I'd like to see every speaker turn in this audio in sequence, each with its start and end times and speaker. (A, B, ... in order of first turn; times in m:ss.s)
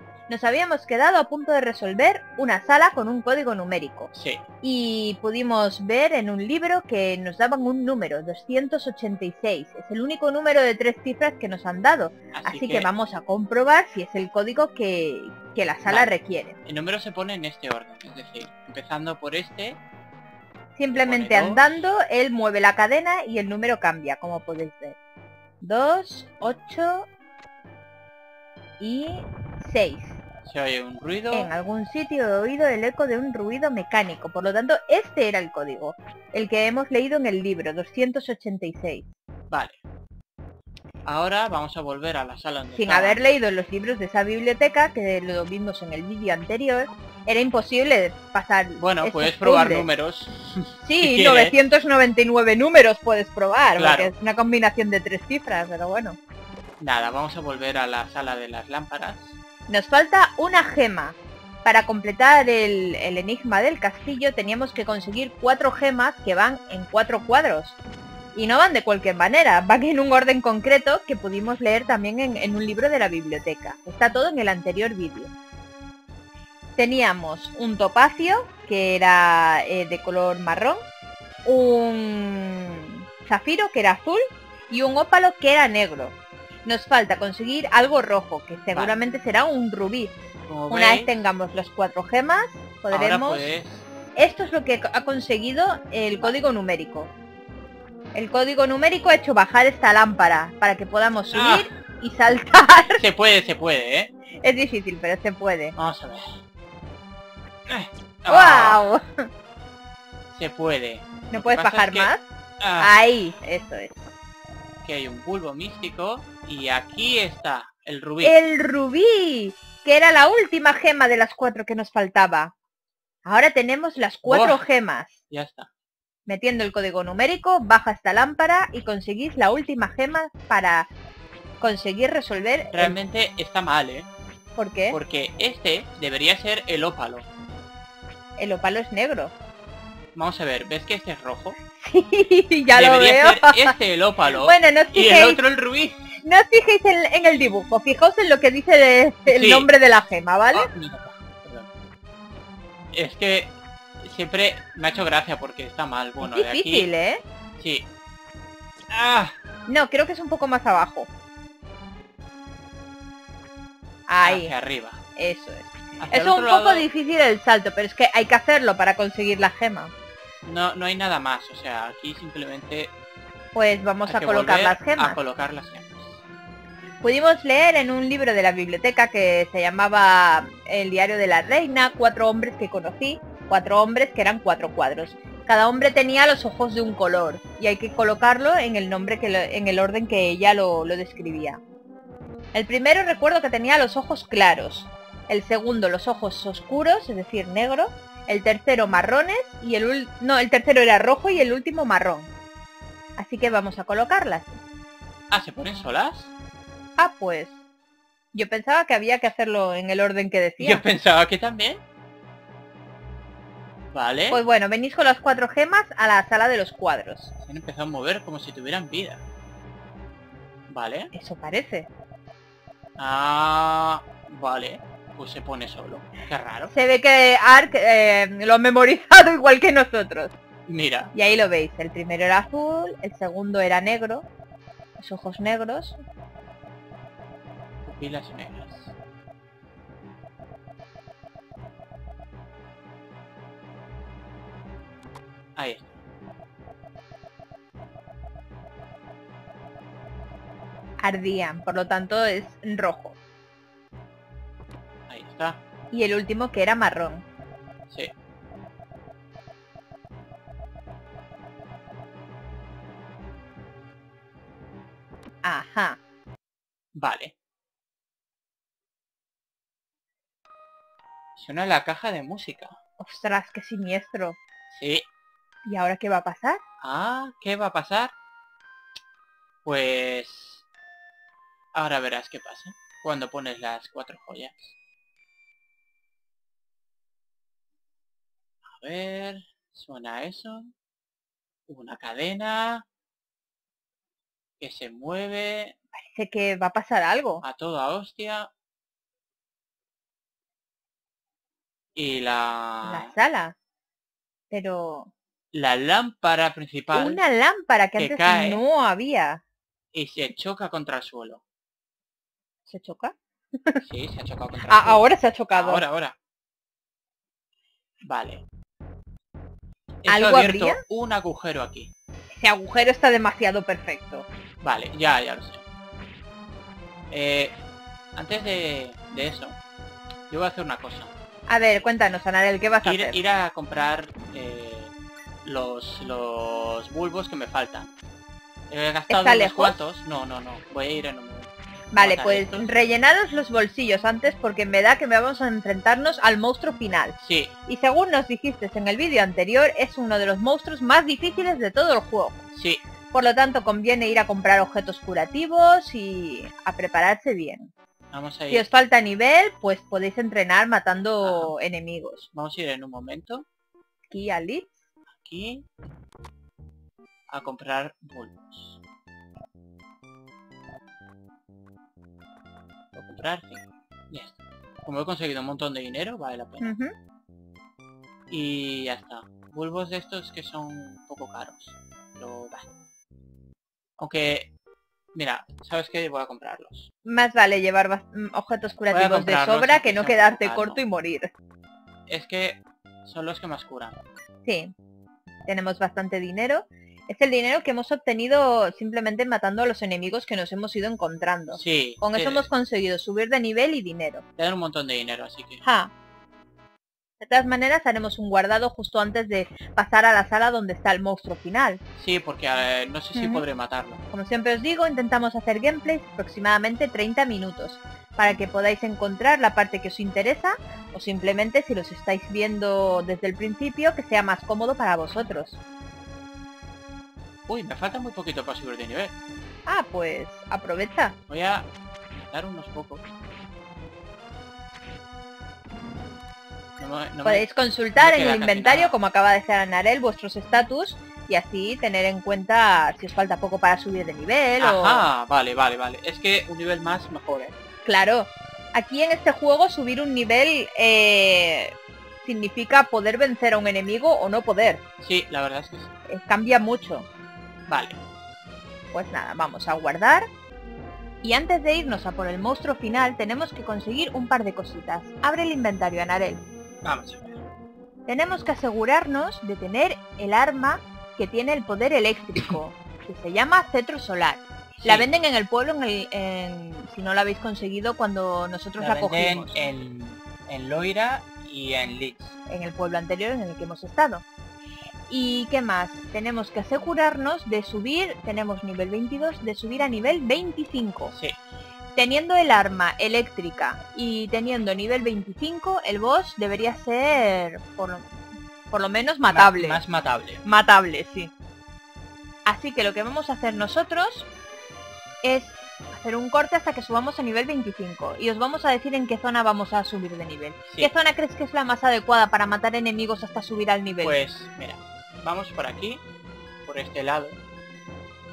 0:00.3-0:04.1 A
0:04.1-0:04.4 B
0:04.6-0:16.6 A
0:12.3-0:12.9 B
0:15.8-0:16.1 B
0:16.6-0:19.8 B
0:20.8-0:25.0 A
0:20.9-0:21.8 B
0:25.6-0:27.1 A
0:28.8-0:30.2 A
0:30.5-0:31.5 B
0:31.3-0:39.1 A
0:39.5-0:39.8 B
0:41.0-0:43.2 B
0:42.8-0:49.9 A
0:48.8-0:51.6 B
0:50.8-0:56.2 A
0:53.8-0:54.1 B
0:56.8-0:59.4 B
0:59.7-1:07.8 A
1:08.4-1:15.3 A
1:16.8-1:20.8 A
1:21.4-1:30.2 A
1:30.5-1:31.2 B
1:30.7-1:33.5 A
1:32.9-1:33.9 B
1:34.2-1:37.1 A
1:36.1-1:36.4 B
1:38.1-1:43.0 A
1:41.3-1:41.7 B
1:43.0-1:44.1 B
1:44.4-1:45.8 A
1:45.8-1:46.4 B
1:47.7-1:48.8 B
1:48.3-1:49.3 A
1:50.3-1:52.9 B
1:51.3-1:52.2 A
1:52.8-1:54.0 A
1:54.8-1:58.4 B
1:58.2-2:02.5 A
2:03.2-2:05.2 A
2:04.2-2:04.7 B
2:05.3-2:05.7 B
2:06.3-2:10.9 A
2:11.6-2:13.0 A
2:12.7-2:14.1 B
2:14.6-2:15.0 A
2:14.9-2:17.3 B
2:18.4-2:19.3 A
2:20.2-2:21.6 B
2:21.8-2:23.7 A
2:22.7-2:26.0 B
2:24.4-2:25.4 A
2:26.2-2:30.7 A
2:29.3-2:29.7 B
2:30.5-2:31.7 B
2:32.9-2:36.9 B
2:36.2-2:37.2 A
2:37.6-2:37.9 B
2:38.9-2:39.4 B
2:39.7-2:41.1 A
2:44.1-2:44.5 A
2:44.2-2:45.0 B
2:45.2-2:49.9 A
2:46.0-2:46.9 B
2:50.4-2:52.9 B
2:53.5-2:55.2 A
2:54.0-2:56.2 B
2:57.0-3:11.6 A
3:12.5-3:22.3 A
3:23.2-3:24.6 A
3:25.3-3:26.3 B
3:27.0-3:27.6 A
3:28.3-3:30.9 A
3:30.6-3:31.8 B
3:33.9-3:34.4 B
3:34.3-3:37.3 A
3:37.4-3:39.2 B
3:40.7-3:41.1 B
3:41.1-3:41.9 A
3:43.0-3:46.7 B
3:46.7-3:50.4 A
3:50.7-3:51.1 B
3:51.1-3:54.3 A
3:55.0-3:56.0 A
3:57.8-3:58.9 B
4:05.6-4:06.0 B
4:11.0-4:13.2 A
4:15.1-4:15.6 B
4:15.9-4:17.2 A
4:25.4-4:26.0 A
4:27.0-4:27.3 B
4:31.4-4:32.8 B
4:33.0-4:34.4 A
4:34.7-4:35.1 B
4:35.7-4:36.6 A
4:36.8-4:38.1 B
4:39.6-4:40.6 B
4:41.7-4:44.8 B
4:48.6-4:50.7 B
4:51.7-4:52.9 B
4:54.6-4:55.8 B
4:55.9-4:57.4 A
4:57.4-4:58.5 B
5:02.0-5:03.1 B
5:02.8-5:03.6 A
5:04.5-5:05.1 A
5:05.5-5:07.2 B
5:06.9-5:09.4 A
5:08.0-5:08.6 B
5:09.9-5:11.4 B
5:12.7-5:13.8 A
5:13.8-5:16.2 B
5:14.7-5:15.8 A
5:18.0-5:18.4 B
5:20.0-5:21.9 B
5:20.1-5:20.8 A
5:22.4-5:24.3 A
5:24.6-5:25.6 B
5:27.1-5:27.6 B
5:28.2-5:29.6 B
5:30.3-5:31.1 B
5:31.5-5:33.2 A
5:32.8-5:34.9 B
5:35.4-5:37.9 B
5:38.7-5:42.8 B
5:39.1-5:39.8 A
5:41.9-5:52.4 A
5:47.2-5:47.5 B
5:52.5-5:52.8 B
5:53.1-5:57.7 A
5:58.1-5:58.7 B
5:58.5-6:02.3 A
6:01.2-6:01.5 B
6:02.3-6:03.4 B
6:04.1-6:04.8 A
6:05.2-6:05.7 B
6:07.3-6:08.8 B
6:12.9-6:16.7 B
6:16.6-6:16.9 A
6:18.3-6:22.7 B
6:24.0-6:24.5 B
6:25.1-6:26.9 B
6:27.0-6:31.3 A
6:28.9-6:30.8 B
6:32.1-6:34.0 B
6:34.4-6:34.7 A
6:35.5-6:44.2 A
6:41.5-6:42.5 B
6:44.4-6:45.6 B
6:45.6-6:45.9 A
6:47.2-6:51.8 A
6:52.0-6:54.0 B
6:53.2-6:53.4 A
6:54.1-7:05.6 A
7:07.5-7:09.1 B
7:09.7-7:11.2 A
7:11.3-7:13.0 B
7:16.8-7:19.0 B
7:17.2-7:25.0 A
7:24.6-7:27.5 B
7:27.8-7:34.8 A
7:35.0-7:35.9 B
7:36.1-7:37.1 A
7:37.7-7:38.0 B
7:38.9-7:40.3 A
7:41.2-7:46.4 A
7:46.8-7:47.4 B
7:48.1-7:59.6 A
7:54.8-7:55.1 B
7:58.8-8:02.3 B
8:02.5-8:04.2 A
8:05.1-8:11.1 A
8:11.1-8:11.4 B
8:12.0-8:18.2 A
8:18.7-8:19.8 A
8:19.3-8:20.4 B
8:20.4-8:21.3 A
8:22.5-8:24.3 A
8:25.2-8:34.2 A
8:30.7-8:30.9 B
8:34.0-8:36.0 B
8:36.6-8:37.4 B